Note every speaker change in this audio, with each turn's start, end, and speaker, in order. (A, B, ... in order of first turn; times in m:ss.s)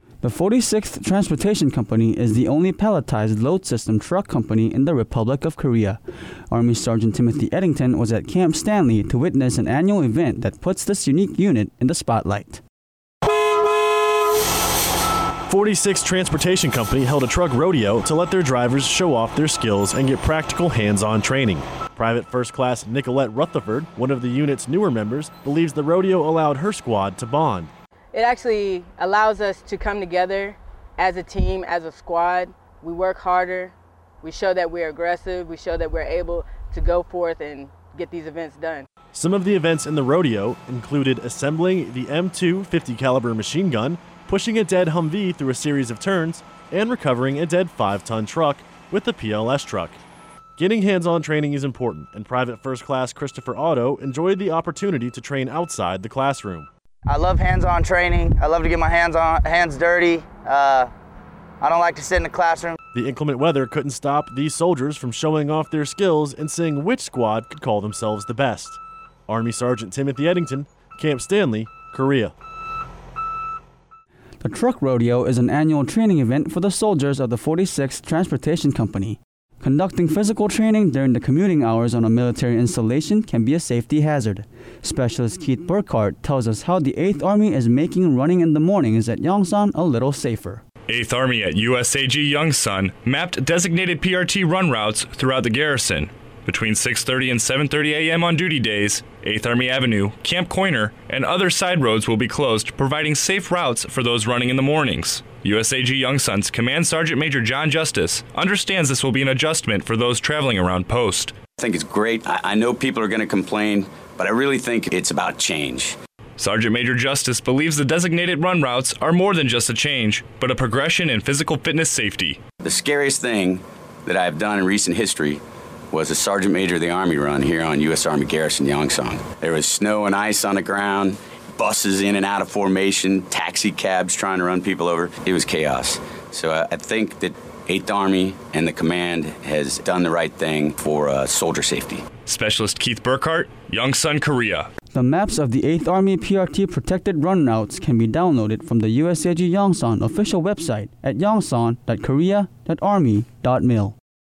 0:00.2-0:06.0 A
0:06.5-0:12.6 A
0:15.5-0:27.7 B
0:28.1-0:38.9 C
0:39.1-0:50.0 B
0:50.6-0:56.7 B
0:57.1-1:00.9 D
1:01.6-1:02.8 D
1:02.9-1:12.4 B
1:14.4-1:30.6 A
1:30.9-1:51.3 E
1:51.6-1:56.0 F
1:56.4-2:02.4 E
2:02.6-2:22.0 F
2:22.3-2:24.7 E
2:24.9-2:34.0 A